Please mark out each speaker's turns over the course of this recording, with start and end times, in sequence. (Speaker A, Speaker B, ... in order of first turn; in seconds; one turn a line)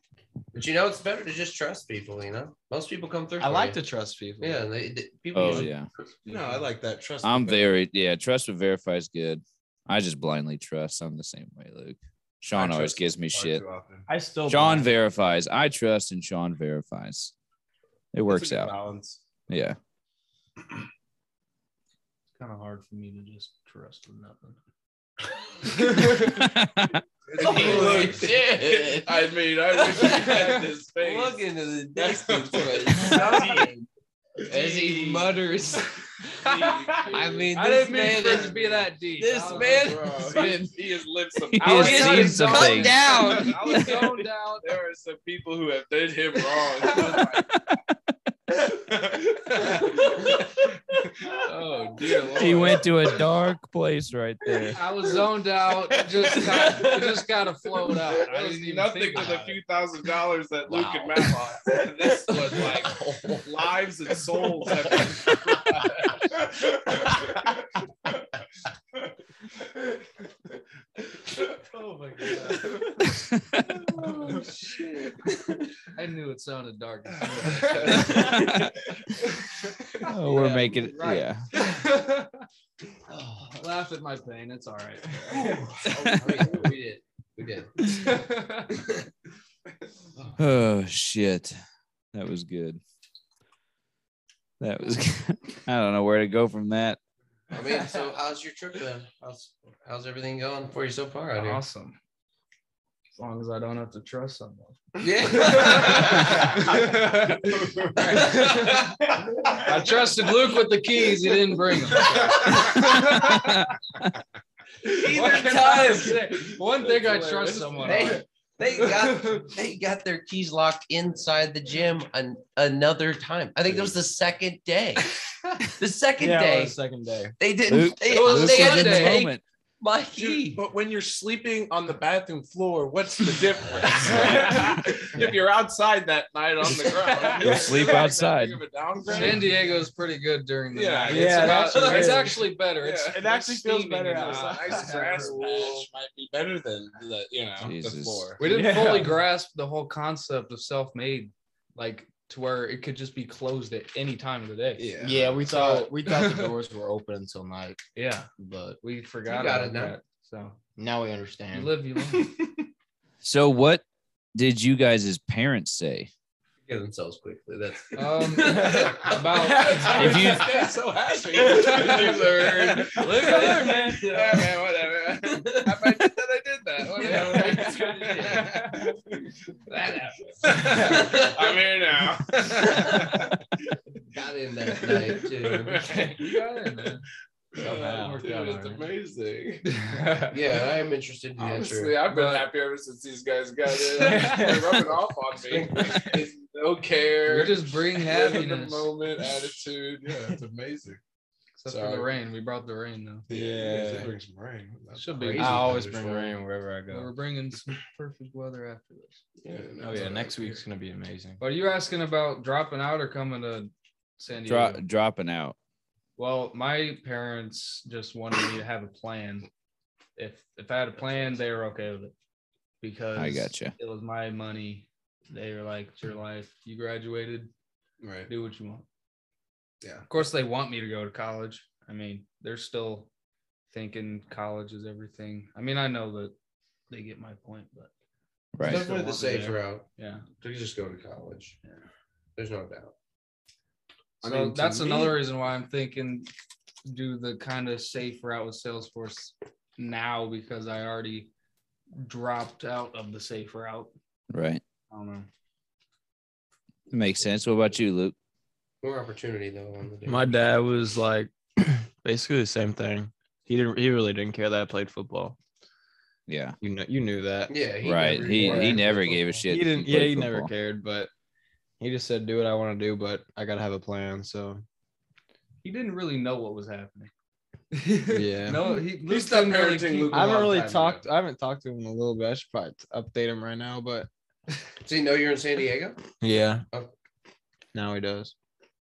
Speaker A: 0.5-3.8
Speaker B: 3.4-4.7
Speaker A: 4.4-6.3
Speaker C: 5.3-5.9
Speaker D: 6.2-7.8
Speaker C: 7.2-13.6
Speaker D: 12.5-14.1
Speaker B: 14.1-14.9
Speaker C: 14.5-17.3
Speaker C: 18.1-18.8
Speaker D: 18.3-19.3
Speaker C: 19.5-19.8
Speaker E: 22.4-24.6
Speaker E: 25.6-26.5
Speaker C: 26.3-27.0
Speaker D: 27.3-31.4
Speaker A: 27.4-33.9
Speaker B: 27.5-28.2
Speaker E: 27.6-28.1
Speaker E: 30.1-30.5
Speaker D: 31.9-33.7
Speaker A: 34.4-35.9
Speaker D: 34.5-35.2
Speaker D: 36.3-37.6
Speaker E: 36.5-36.8
Speaker A: 37.1-40.6
Speaker E: 37.5-40.6
Speaker D: 38.1-38.5
Speaker D: 39.4-47.5
Speaker C: 41.4-44.2
Speaker E: 41.6-44.8
Speaker A: 41.8-43.2
Speaker C: 46.9-48.0
Speaker D: 48.6-53.1
Speaker C: 52.4-54.8
Speaker E: 52.5-52.7
Speaker E: 54.8-59.5
Speaker D: 56.0-57.0
Speaker D: 58.1-67.4
Speaker A: 60.7-61.3
Speaker A: 62.3-63.5
Speaker E: 72.2-73.0
Speaker D: 72.2-72.8
Speaker C: 73.2-74.2
Speaker E: 74.0-74.8
Speaker E: 75.9-78.4
Speaker D: 77.1-78.5
Speaker C: 78.1-78.8
Speaker D: 79.8-80.5
Speaker C: 80.0-81.5
Speaker E: 80.3-82.4
Speaker A: 83.1-83.4
Speaker E: 83.4-85.7
Speaker D: 85.3-85.9
Speaker A: 85.8-87.8
Speaker C: 85.9-86.2
Speaker E: 87.8-88.8
Speaker C: 90.4-91.6
Speaker C: 92.1-92.8
Speaker C: 94.6-97.0
Speaker A: 97.5-101.6
Speaker E: 101.3-102.0
Speaker E: 103.1-113.7
Speaker A: 105.0-106.4
Speaker D: 105.7-106.7
Speaker D: 107.4-110.1
Speaker D: 111.9-113.3
Speaker C: 113.3-113.7
Speaker A: 114.9-116.2
Speaker D: 114.9-118.2
Speaker E: 114.9-118.2
Speaker A: 117.8-125.1
Speaker E: 118.9-119.4
Speaker D: 123.7-124.0
Speaker A: 125.8-126.8
Speaker B: 126.2-127.3
Speaker A: 127.4-130.6
Speaker C: 127.7-129.4
Speaker E: 128.1-129.2
Speaker D: 130.2-139.6
Speaker E: 136.7-137.7
Speaker B: 137.4-138.1
Speaker C: 137.4-138.6
Speaker E: 139.1-145.8
Speaker B: 139.1-139.5
Speaker D: 140.7-143.3
Speaker B: 141.1-142.5
Speaker B: 143.1-145.8
Speaker D: 144.2-148.4
Speaker C: 147.6-148.4
Speaker E: 148.4-154.9
Speaker B: 148.4-149.2
Speaker D: 154.8-155.4
Speaker B: 155.0-157.8
Speaker E: 155.5-156.6
Speaker E: 158.0-160.6
Speaker B: 158.4-158.8
Speaker A: 159.3-160.0
Speaker B: 160.8-162.6
Speaker E: 161.5-162.4
Speaker C: 163.2-163.8
Speaker C: 164.3-166.1
Speaker A: 166.7-169.2
Speaker E: 167.9-170.4
Speaker B: 168.6-170.4
Speaker D: 169.0-179.2
Speaker C: 169.9-170.5
Speaker E: 171.3-174.6
Speaker B: 171.4-174.0
Speaker A: 175.3-175.7
Speaker E: 177.0-179.0
Speaker B: 177.0-177.8
Speaker E: 179.7-181.1
Speaker D: 180.4-183.4
Speaker B: 180.6-181.0
Speaker A: 180.8-181.5
Speaker A: 182.8-183.1
Speaker A: 184.1-185.8
Speaker D: 184.8-186.5
Speaker E: 185.7-187.1
Speaker D: 187.6-189.7
Speaker B: 187.6-188.7
Speaker E: 187.6-188.9
Speaker E: 189.7-190.4
Speaker A: 190.3-192.0
Speaker D: 191.4-201.0
Speaker E: 192.1-192.5
Speaker B: 193.9-195.0
Speaker E: 193.9-194.5
Speaker A: 195.4-196.1
Speaker B: 195.8-196.1
Speaker E: 197.2-198.9
Speaker E: 201.6-203.3
Speaker D: 201.7-202.1
Speaker D: 203.3-206.3
Speaker B: 203.3-204.1
Speaker E: 205.0-205.9
Speaker B: 205.3-207.1
Speaker E: 206.9-209.2
Speaker D: 209.4-210.6
Speaker B: 209.8-211.4
Speaker E: 211.4-214.8
Speaker C: 214.5-215.6
Speaker E: 216.2-219.5
Speaker E: 220.2-222.1
Speaker E: 222.8-227.5
Speaker C: 223.2-223.7
Speaker D: 228.0-228.3
Speaker E: 228.3-228.8
Speaker D: 229.8-230.1
Speaker E: 230.1-233.1
Speaker E: 233.7-236.3
Speaker E: 236.9-237.9
Speaker C: 238.6-238.9
Speaker A: 238.6-239.8
Speaker B: 238.6-239.6
Speaker E: 240.0-240.2
Speaker A: 240.4-241.6
Speaker A: 242.4-242.9
Speaker D: 244.2-245.2
Speaker E: 244.2-246.3
Speaker E: 246.9-251.3
Speaker E: 252.0-253.9
Speaker C: 254.3-254.6
Speaker E: 254.9-255.3
Speaker C: 256.9-258.1
Speaker A: 258.8-260.4
Speaker B: 260.1-265.4
Speaker C: 266.3-266.6
Speaker B: 266.6-267.6
Speaker A: 267.5-268.8
Speaker C: 267.8-270.5
Speaker E: 268.4-269.4
Speaker B: 268.4-268.9
Speaker B: 269.5-271.1
Speaker B: 271.8-274.6
Speaker E: 275.6-277.1
Speaker E: 277.7-280.7
Speaker B: 278.1-278.9
Speaker D: 279.0-281.1
Speaker B: 280.1-284.1
Speaker A: 284.9-286.0
Speaker B: 286.2-286.6
Speaker B: 287.7-288.3